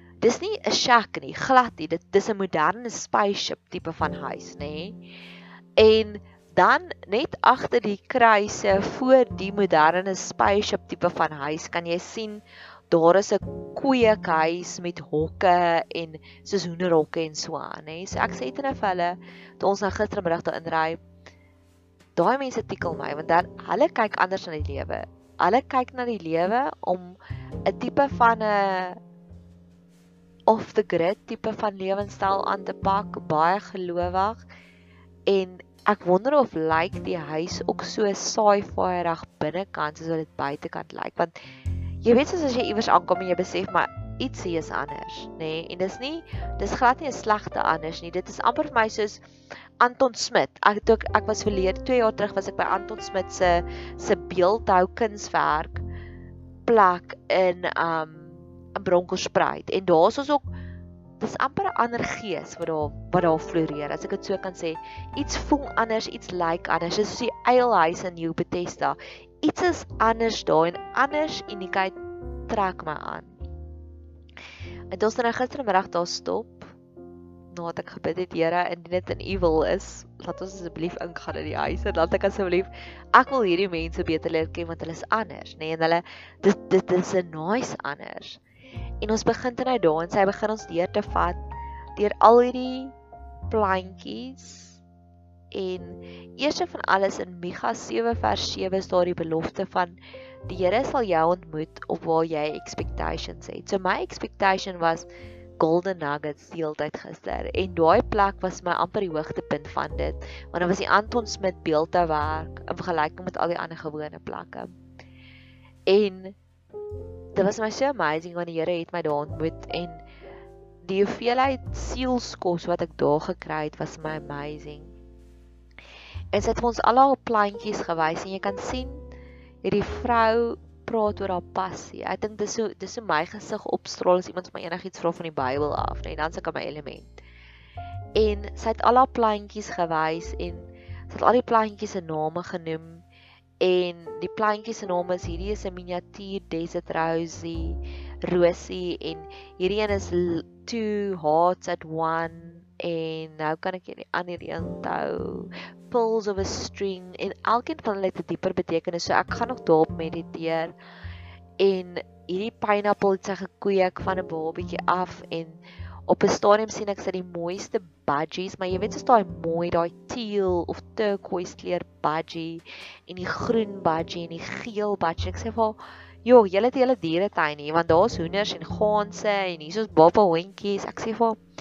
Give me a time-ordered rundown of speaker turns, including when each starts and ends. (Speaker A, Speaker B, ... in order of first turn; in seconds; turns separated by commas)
Speaker A: 0.2-5.0, Speaker A: 5.8-21.0, Speaker A: 22.1-29.0, Speaker A: 30.5-34.4, Speaker A: 35.3-41.4, Speaker A: 42.0-49.2, Speaker A: 49.8-55.8, Speaker A: 56.6-60.5, Speaker A: 61.2-72.0, Speaker A: 72.5-73.3, Speaker A: 74.9-76.7, Speaker A: 77.5-88.4, Speaker A: 89.0-91.4, Speaker A: 92.0-92.9, Speaker A: 93.5-94.8, Speaker A: 95.5-105.1, Speaker A: 105.6-114.7, Speaker A: 115.9-116.3, Speaker A: 117.3-120.0, Speaker A: 120.8-124.9, Speaker A: 126.3-129.0, Speaker A: 129.6-137.2, Speaker A: 138.1-143.0, Speaker A: 143.6-160.7, Speaker A: 161.6-181.4